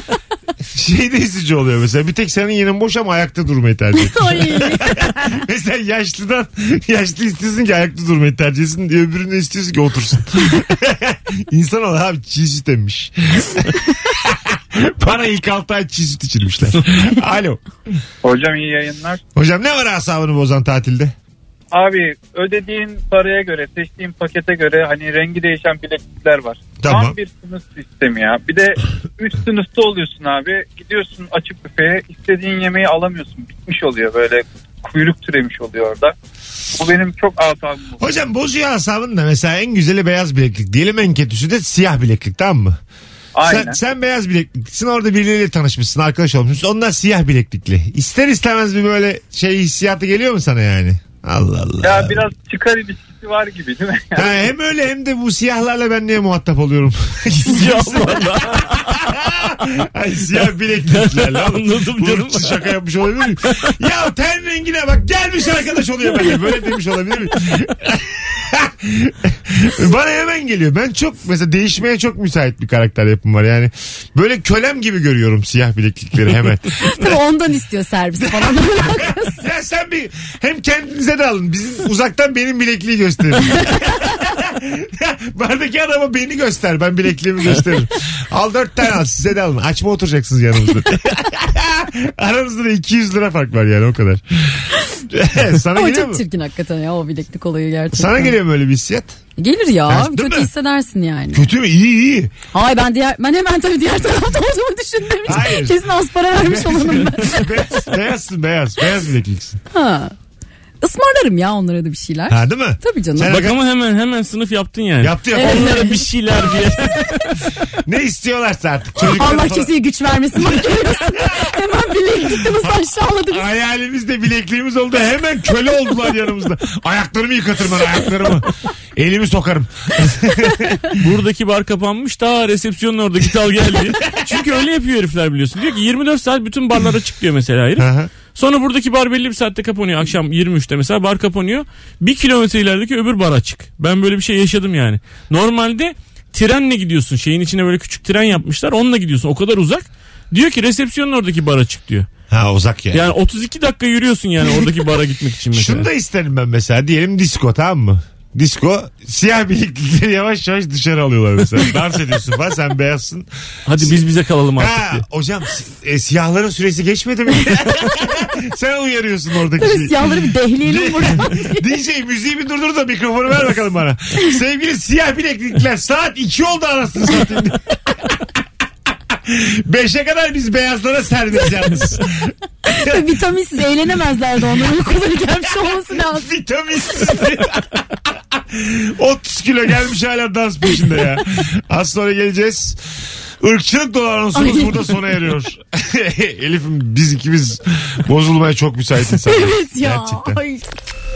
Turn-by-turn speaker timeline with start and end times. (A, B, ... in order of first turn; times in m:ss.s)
0:00.7-0:17.6 A
0:04.0-0:05.3 B
0:18.2-0:19.2 C
0:19.3-0:21.1 A
0:21.7-0:36.1 C
0:26.8-0:27.2 A
0:36.7-0:38.2 C
0:38.0-0:42.8 A
0:43.3-0:43.8 C
0:43.4-0:52.2 A
0:51.8-0:54.4 C
0:54.1-1:17.2 A
0:57.4-0:59.8 D
1:00.8-1:02.6 D
1:16.8-1:19.4 B
1:18.2-1:36.2 A
1:35.7-1:38.3 B
1:37.9-1:39.2 A
1:39.4-1:41.5 B
1:39.9-1:40.5 A
1:41.3-1:42.3 A
1:42.5-1:47.5 B
1:45.2-1:45.8 A
1:46.3-1:49.6 A
1:49.7-1:50.1 B
1:50.8-1:53.4 B
1:52.3-1:53.6 A
1:53.3-1:57.5 D
1:55.0-1:55.9 A
1:55.3-1:56.0 B
1:57.7-1:59.7 A
1:59.0-2:03.4 B
2:00.4-2:01.6 A
2:02.3-2:11.0 A
2:11.0-2:32.1 D
2:14.0-2:14.4 A
2:17.8-2:18.1 A
2:32.3-2:33.1 A
2:32.9-2:35.9 D
2:35.5-2:44.0 A
2:43.6-2:45.0 D
2:44.6-2:58.3 A
2:49.6-2:51.6 B
2:59.1-3:03.1 A
3:02.6-3:06.3 B
3:05.8-3:12.8 A
3:13.4-3:20.4 A
3:14.3-3:15.0 B
3:19.2-3:20.6 B